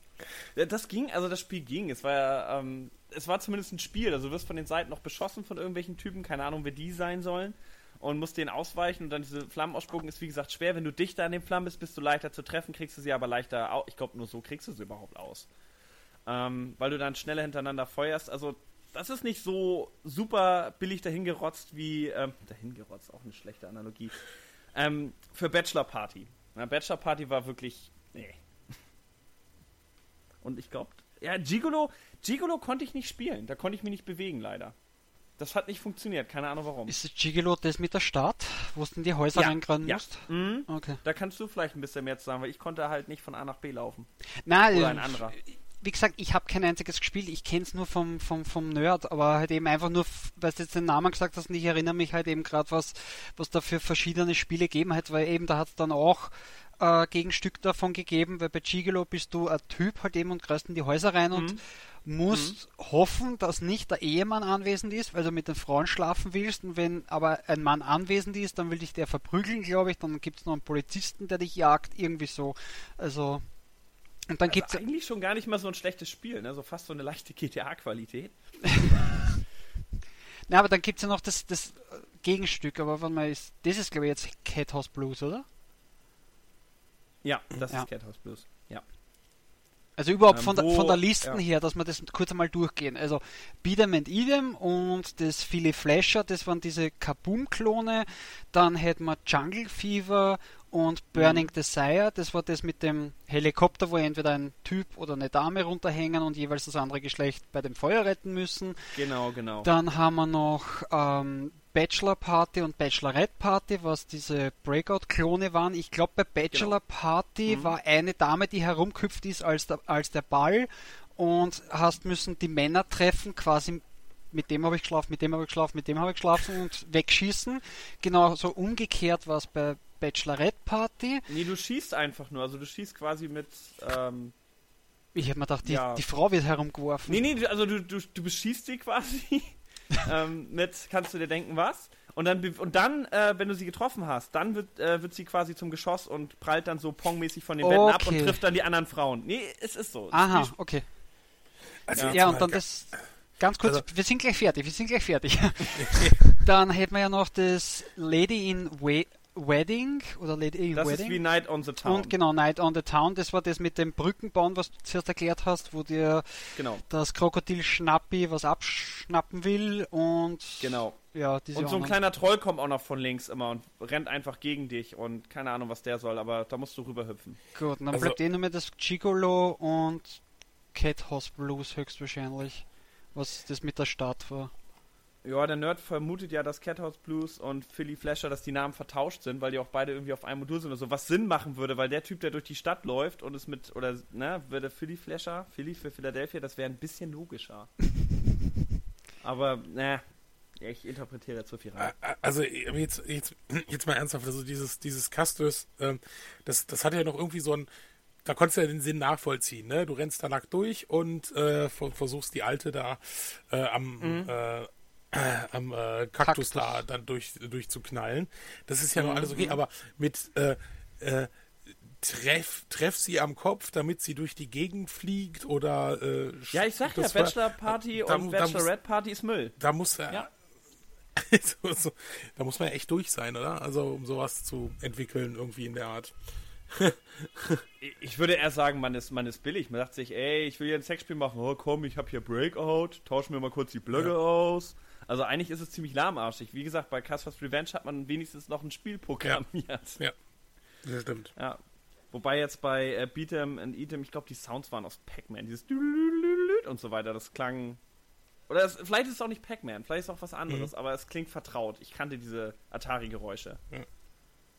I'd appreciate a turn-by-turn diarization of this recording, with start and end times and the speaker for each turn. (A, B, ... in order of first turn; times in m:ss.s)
0:00.5-0:15.5 A
0:16.3-0:24.2 A
0:24.8-0:28.4 A
0:30.4-0:34.8 A
0:35.4-0:36.9 A
0:36.9-0:41.0 B
0:39.3-0:44.1 A
0:44.4-1:13.5 B
0:44.7-0:45.4 A
1:01.3-1:01.6 A
1:02.3-1:02.6 A
1:14.3-1:14.8 B
1:14.5-1:18.3 A
1:18.8-1:19.0 B
1:20.5-1:25.4 B
1:27.2-1:28.8 A
1:30.0-1:48.8 B
1:30.3-1:31.4 A
1:41.2-1:41.4 A
1:48.9-1:49.7 A
1:49.6-2:11.3 B
1:57.5-1:57.8 A
2:11.3-2:14.3 A
2:15.2-2:17.2 B
2:15.6-2:16.0 A
2:17.1-2:30.5 A
2:27.6-2:28.4 B
2:30.1-2:30.8 B
2:31.9-2:33.0 C
2:31.9-2:32.2 A
2:32.1-2:41.2 B
2:35.8-2:36.2 C
2:40.8-2:42.1 A
2:41.8-2:52.0 B
2:46.6-2:46.8 A
2:50.6-2:51.0 A
2:51.5-2:57.4 A
2:57.6-3:00.2 B
2:57.9-2:58.2 C
3:00.7-3:04.5 B
3:05.2-3:17.7 A
3:19.2-3:20.0 A
3:20.6-3:21.9 A
3:21.8-3:27.7 C
3:28.2-3:41.3 C
3:34.0-3:34.3 A
3:36.2-3:36.8 B
3:39.0-3:39.6 A
3:41.9-3:48.7 C
3:46.5-3:49.6 A
3:49.6-3:50.3 C
3:51.2-3:56.2 C
3:56.7-3:57.6 C
3:57.8-4:10.0 A
4:10.8-4:11.3 C
4:12.1-4:17.8 A
4:18.5-4:23.6 A